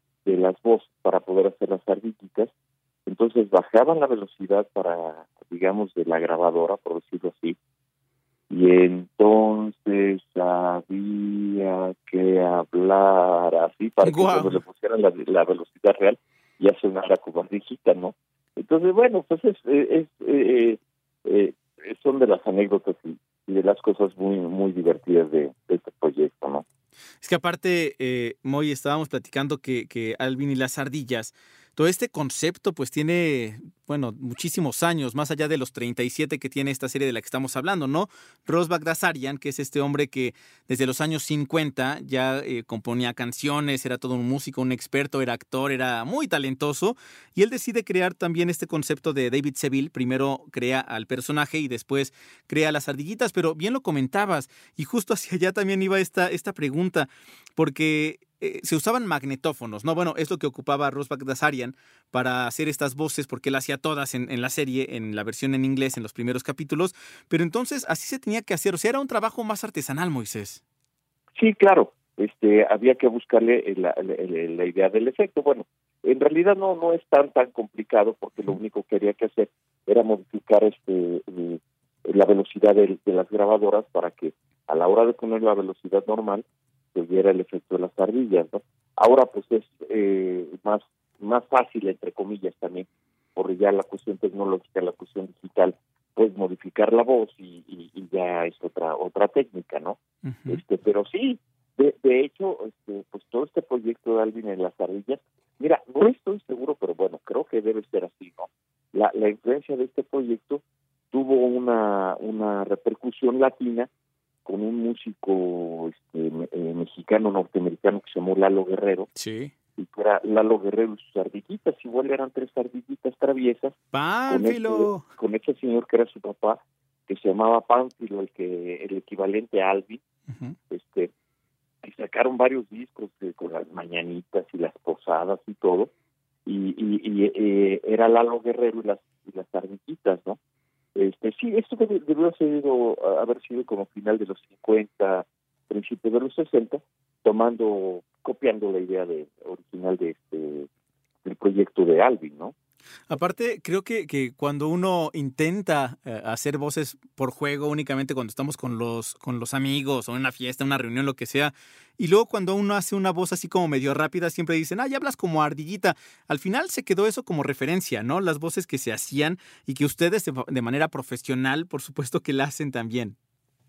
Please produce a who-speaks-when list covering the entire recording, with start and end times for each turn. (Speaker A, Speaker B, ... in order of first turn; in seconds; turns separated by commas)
Speaker A: 0.2-2.5, Speaker A: 3.0-7.5, Speaker A: 8.5-26.6, Speaker B: 14.0-14.6, Speaker B: 27.2-70.6, Speaker A: 71.4-113.9, Speaker B: 100.2-100.6, Speaker A: 114.4-119.1, Speaker B: 119.1-119.5, Speaker A: 119.8-123.8, Speaker B: 123.9-125.0, Speaker A: 124.3-130.0, Speaker B: 130.3-130.6, Speaker A: 130.7-131.1, Speaker A: 131.8-135.9, Speaker A: 136.4-140.4, Speaker A: 140.9-150.7, Speaker A: 151.2-152.5, Speaker B: 153.1-173.2